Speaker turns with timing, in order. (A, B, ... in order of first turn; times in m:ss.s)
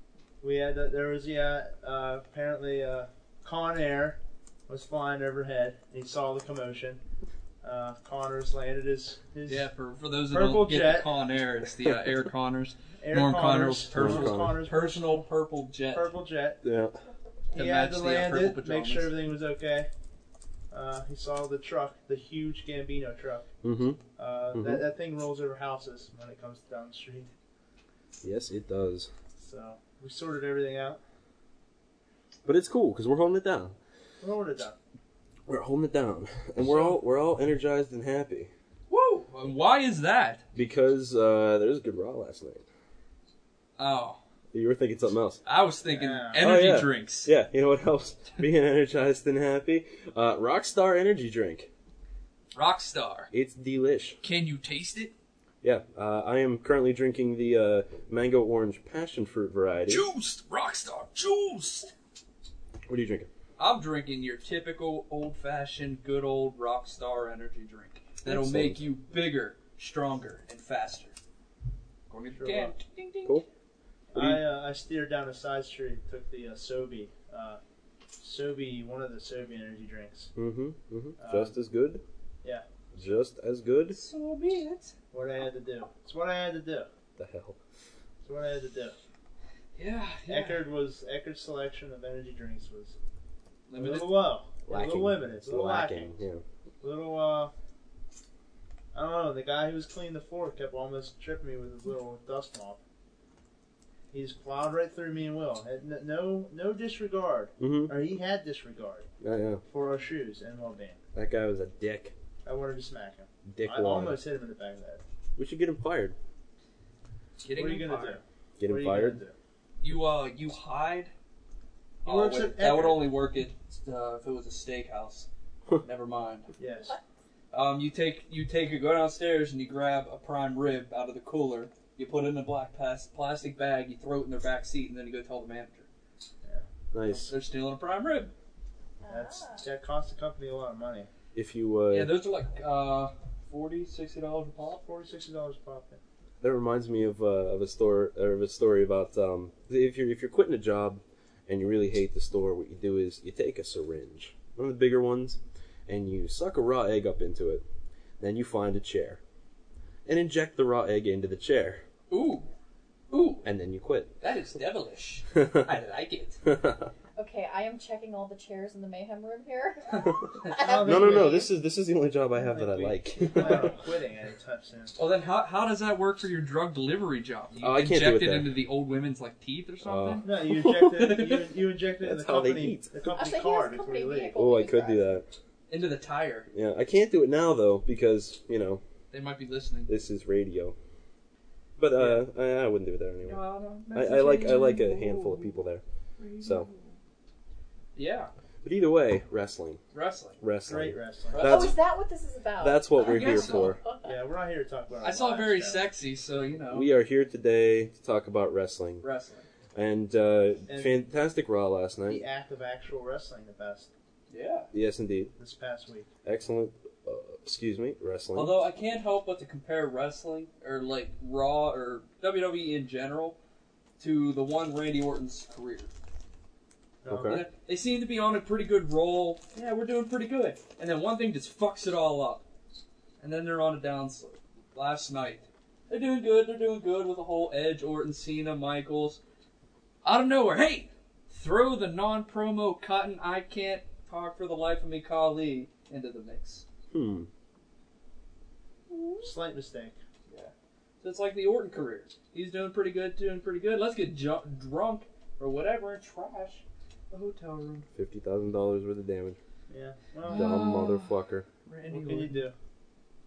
0:00.4-0:07.0 A
0:07.6-0:09.7 A
0:09.5-0:16.1 B
0:10.3-0:11.1 A
0:13.0-0:15.2 A
0:13.9-0:14.6 C
0:15.9-0:16.6 A
0:16.6-0:17.0 C
0:17.5-0:19.1 B
0:17.6-0:19.9 A
0:20.7-0:23.5 A
0:23.6-0:24.0 C
0:24.2-0:27.3 A
0:24.5-0:24.8 C
0:28.2-0:29.1 C
0:29.4-0:31.0 A
0:32.4-0:33.8 C
0:34.2-0:34.8 A
0:35.5-0:38.5 C
0:36.6-0:36.9 B
0:38.9-0:40.4 B
0:40.6-0:42.6 C
0:43.8-0:44.2 B
0:44.5-0:45.4 C
0:45.4-0:47.3 B
0:45.9-0:46.5 A
0:46.4-0:51.7 C
0:52.6-0:53.3 B
0:53.3-0:54.2 C
0:54.2-0:55.1 B
0:55.6-1:00.1 C
0:59.9-1:01.9 B
1:02.9-1:03.3 C
1:03.6-1:11.1 B
1:08.2-1:08.9 C
1:12.1-1:13.4 B
1:12.3-1:12.8 A
1:14.1-1:17.6 A
1:14.1-1:14.4 C
1:18.2-1:20.3 A
1:20.4-1:22.0 C
1:21.2-1:21.5 A
1:22.9-1:24.0 C
1:23.9-1:24.9 B
1:25.1-1:26.9 A
1:27.2-1:27.6 C
1:28.2-1:29.0 A
1:29.8-1:30.6 B
1:30.3-1:33.0 A
1:33.7-1:34.2 B
1:33.8-1:36.1 A
1:34.7-1:36.4 C
1:36.8-1:37.5 A
1:38.9-1:42.8 A
1:44.1-1:49.1 A
1:47.6-1:47.9 C
1:49.2-1:49.6 C
1:49.7-1:51.0 A
1:51.2-1:52.1 C
1:52.4-1:55.0 A
1:53.5-1:54.2 C
1:55.4-1:56.2 C
1:57.4-1:58.2 B
1:57.5-1:59.4 A
1:58.6-1:59.2 C
1:59.8-2:01.1 B
2:02.0-2:05.3 B
2:02.0-2:03.1 A
2:05.8-2:06.5 B
2:06.6-2:06.9 A
2:07.5-2:15.9 B
2:16.4-2:17.3 A
2:16.9-2:17.3 C
2:17.3-2:18.3 B
2:19.0-2:19.6 D
2:19.1-2:21.1 A
2:21.4-2:22.1 C
2:21.9-2:24.8 B
2:24.8-2:26.0 A
2:26.4-2:37.6 C
2:38.2-2:39.2 C
2:40.1-2:41.8 C
2:42.1-2:42.5 B
2:43.1-2:43.5 B
2:43.4-2:44.1 C
2:44.2-2:46.4 B
2:45.4-2:45.7 C
2:46.4-2:46.9 C
2:47.2-2:51.5 D
2:50.5-2:51.5 A
2:50.8-2:53.8 C
2:52.4-2:55.0 A
2:55.0-3:01.5 B
2:57.6-2:58.5 C
2:59.8-3:00.2 C
3:00.2-3:04.3 A
3:02.0-3:02.9 C
3:03.1-3:05.1 D
3:04.3-3:05.3 C
3:05.7-3:06.5 B
3:06.5-3:08.8 C
3:09.1-3:09.9 B
3:09.9-3:10.8 C
3:11.8-3:13.4 C
3:12.0-3:12.2 B
3:13.2-3:15.6 B
3:13.9-3:15.8 C
3:16.2-3:17.0 B
3:16.4-3:16.7 C
3:18.0-3:18.3 B
3:18.6-3:19.8 C
3:19.9-3:20.4 B
3:20.4-3:21.8 C
3:20.6-3:21.4 A
3:21.3-3:21.7 B
3:21.4-3:24.1 D
3:22.6-3:23.8 C
3:23.0-3:23.8 B
3:24.0-3:25.9 A
3:25.0-3:26.9 B
3:26.7-3:29.0 C
3:29.0-3:29.5 B
3:29.8-3:32.3 C
3:30.7-3:31.0 A
3:32.1-3:33.9 A
3:34.3-3:34.7 B
3:34.7-3:35.3 C
3:35.4-3:36.1 A
3:36.2-3:38.6 C
3:38.3-3:43.4 B
3:44.0-3:45.9 B
3:47.0-3:47.4 A
3:47.0-3:47.4 C
3:47.2-3:52.4 B
3:53.2-3:59.2 B
4:00.0-4:06.6 B
4:06.9-4:07.3 C
4:08.9-4:09.3 B
4:09.2-4:10.0 A
4:10.3-4:17.9 B
4:18.0-4:19.4 C
4:19.7-4:20.5 A
4:20.3-4:21.5 C
4:20.3-4:21.0 B
4:21.7-4:22.5 B
4:21.9-4:22.6 A